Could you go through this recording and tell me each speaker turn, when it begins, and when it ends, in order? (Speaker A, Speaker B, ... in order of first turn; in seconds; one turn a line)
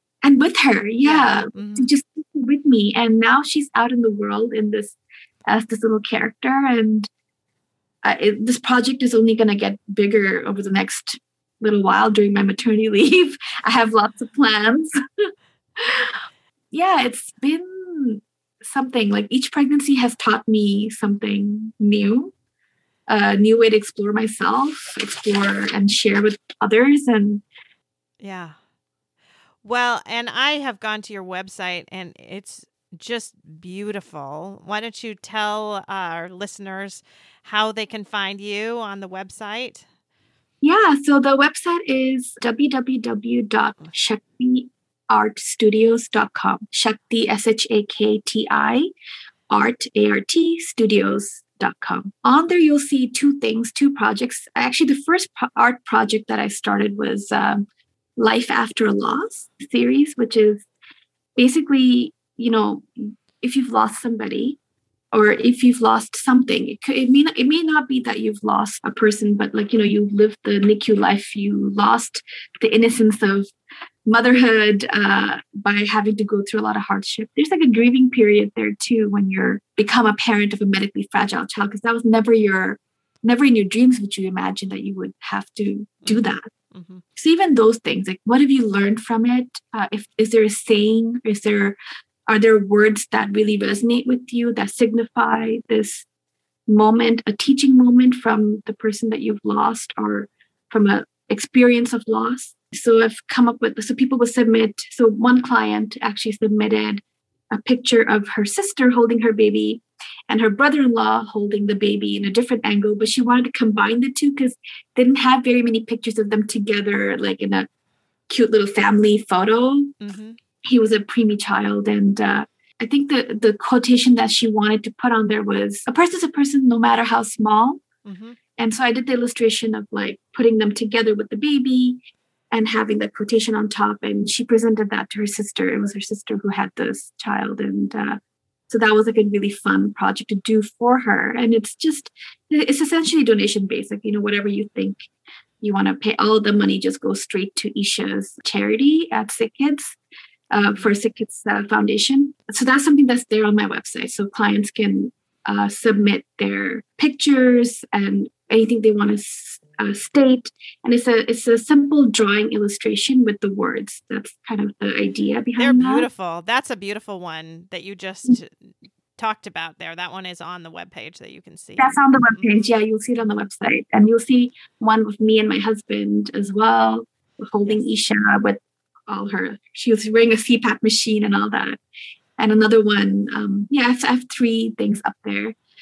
Speaker A: 0.2-7.1
Speaker B: 1.0-1.9
Speaker A: 8.0-14.9
Speaker A: 15.8-16.2
Speaker A: 16.7-22.3
Speaker A: 23.1-27.4
Speaker B: 28.2-28.6
Speaker B: 29.6-39.9
Speaker A: 40.6-48.9
Speaker A: 49.5-60.6
Speaker A: 61.4-64.6
Speaker A: 65.1-73.5
Speaker A: 74.1-86.5
Speaker B: 86.0-87.0
Speaker A: 87.2-91.8
Speaker A: 92.3-96.1
Speaker A: 96.7-117.7
Speaker A: 118.3-120.0
Speaker B: 120.0-120.4
Speaker A: 120.6-127.8
Speaker B: 128.1-128.4
Speaker A: 128.6-132.0
Speaker A: 132.5-145.1
Speaker A: 145.6-150.0
Speaker A: 150.5-166.1
Speaker B: 165.6-172.7
Speaker A: 171.8-181.8
Speaker A: 182.4-185.6